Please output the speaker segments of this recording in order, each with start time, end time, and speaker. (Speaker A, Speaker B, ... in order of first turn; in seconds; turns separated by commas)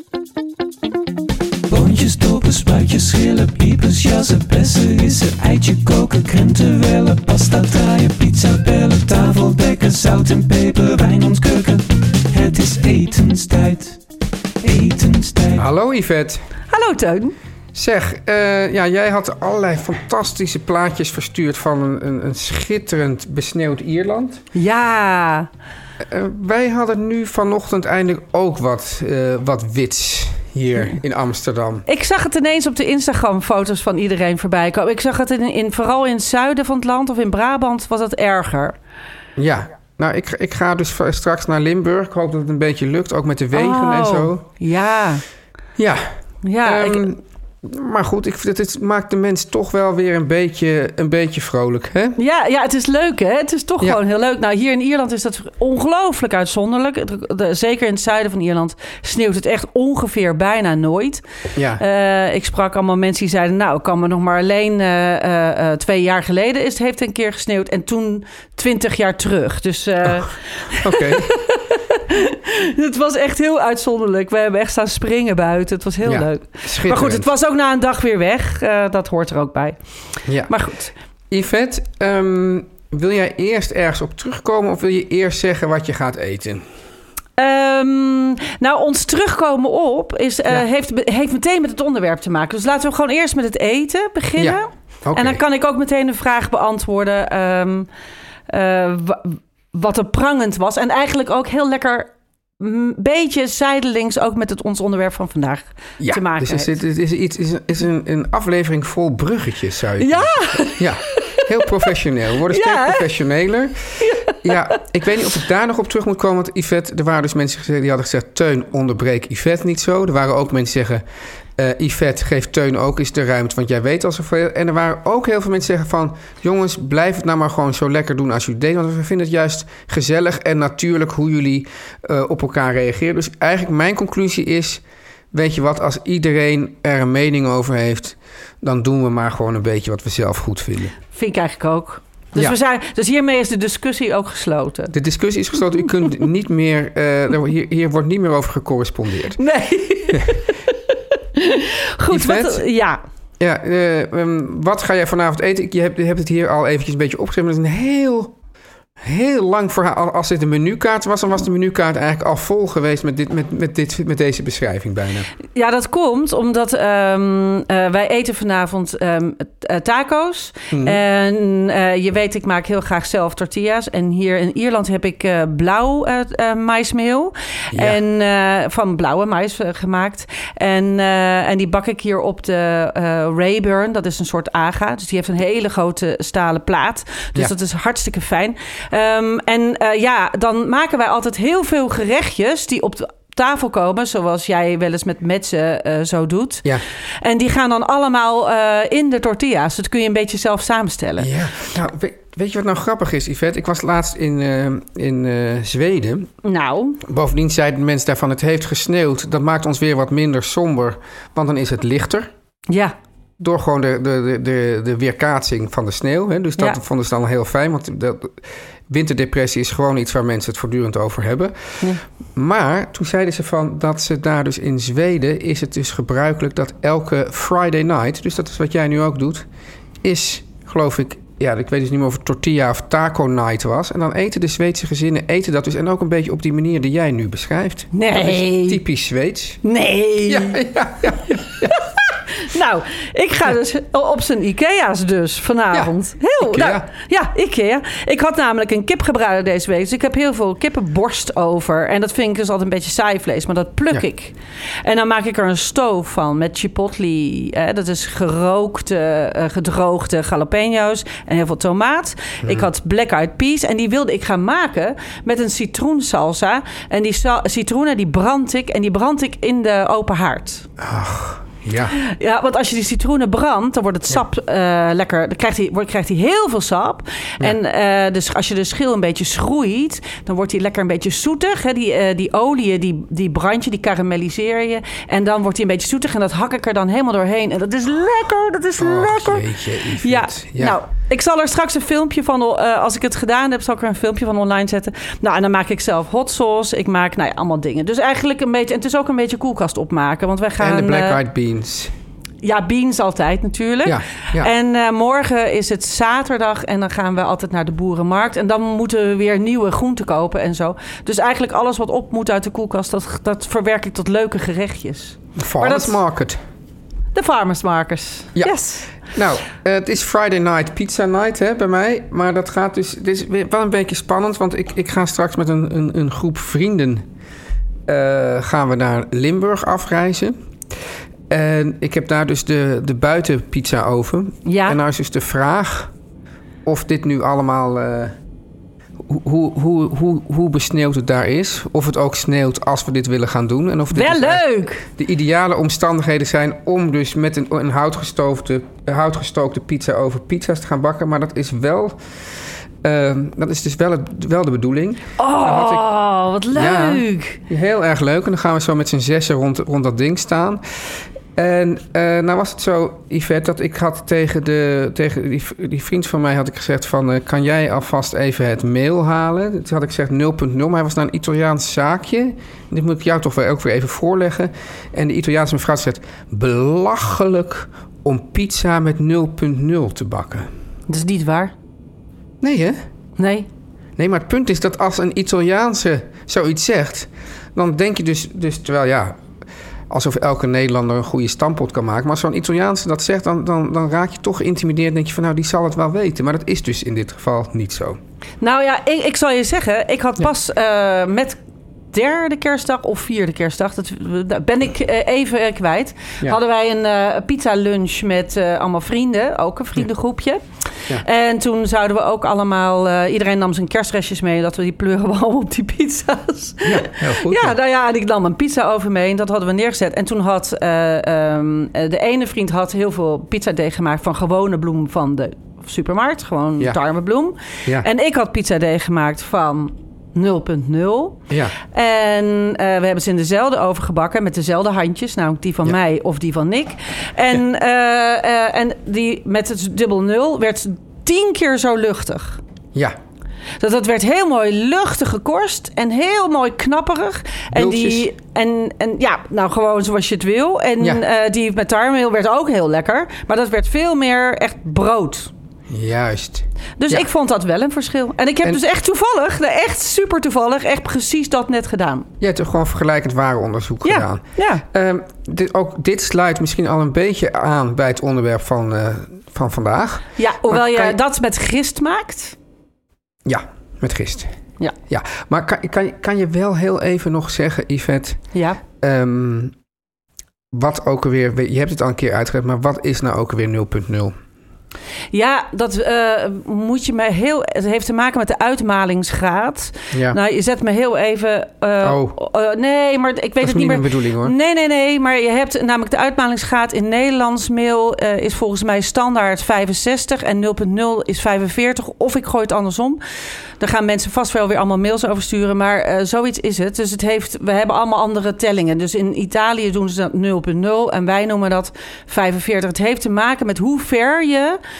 Speaker A: 1.7-14.0, Speaker A: 14.6-15.6, Speaker B: 15.6-16.4, Speaker C: 16.7-17.3, Speaker B: 17.7-24.4, Speaker C: 24.5-25.5, Speaker B: 26.0-31.8, Speaker C: 31.9-38.8, Speaker B: 39.4-44.4, Speaker C: 43.5-45.2, Speaker B: 45.8-52.2, Speaker C: 46.4-47.1, Speaker C: 52.2-61.2, Speaker B: 61.5-61.8, Speaker C: 61.8-79.8, Speaker B: 70.8-71.3, Speaker B: 76.0-77.3, Speaker B: 80.2-80.5, Speaker C: 80.5-80.9, Speaker B: 81.3-86.6, Speaker C: 87.4-97.9, Speaker B: 94.4-95.4, Speaker C: 98.5-106.7, Speaker B: 106.0-121.0, Speaker C: 110.0-111.9, Speaker C: 112.5-113.0, Speaker C: 114.0-114.7, Speaker B: 121.5-141.0, Speaker C: 141.1-144.9, Speaker B: 144.9-149.4, Speaker C: 149.4-153.0, Speaker B: 152.1-152.6, Speaker B: 153.4-158.3, Speaker B: 159.0-165.3, Speaker C: 165.5-196.7, Speaker B: 170.7-171.0, Speaker B: 177.7-178.0, Speaker C: 197.2-201.3, Speaker B: 201.2-206.3, Speaker C: 206.4-207.0, Speaker B: 207.0-212.3, Speaker C: 212.7-212.9, Speaker B: 213.4-221.8, Speaker B: 222.3-229.5, Speaker B: 230.0-239.6, Speaker C: 237.9-238.8, Speaker C: 239.6-240.6, Speaker B: 240.3-241.8, Speaker C: 241.8-270.7, Speaker B: 245.7-246.9, Speaker B: 270.8-271.9, Speaker C: 272.0-289.5, Speaker B: 288.8-290.8, Speaker C: 290.0-301.2, Speaker B: 300.6-301.9, Speaker C: 302.4-316.0, Speaker B: 303.8-304.5, Speaker B: 315.4-316.4, Speaker C: 317.1-318.9, Speaker B: 318.4-327.1, Speaker B: 327.9-330.4, Speaker B: 331.3-335.9, Speaker C: 334.4-334.8, Speaker B: 336.6-338.1, Speaker B: 339.0-352.0, Speaker C: 343.9-344.9, Speaker B: 352.8-355.9, Speaker C: 355.2-357.4, Speaker B: 356.5-360.6, Speaker B: 361.4-380.5, Speaker C: 380.9-381.5, Speaker B: 382.4-382.8, Speaker C: 383.2-383.4, Speaker B: 384.0-389.2, Speaker B: 389.9-398.0, Speaker C: 398.4-401.4, Speaker C: 401.9-410.4, Speaker C: 410.9-442.4, Speaker B: 416.6-417.5, Speaker C: 443.6-455.3, Speaker B: 447.5-448.1, Speaker B: 455.7-457.1, Speaker C: 456.8-462.1, Speaker B: 462.2-471.0, Speaker C: 463.8-464.6, Speaker C: 470.2-472.4, Speaker B: 473.2-474.4, Speaker B: 474.9-479.5, Speaker C: 478.3-478.6, Speaker B: 480.5-484.1, Speaker C: 485.1-503.0, Speaker B: 489.9-490.2, Speaker B: 491.8-492.2, Speaker B: 493.4-494.3, Speaker C: 503.6-514.6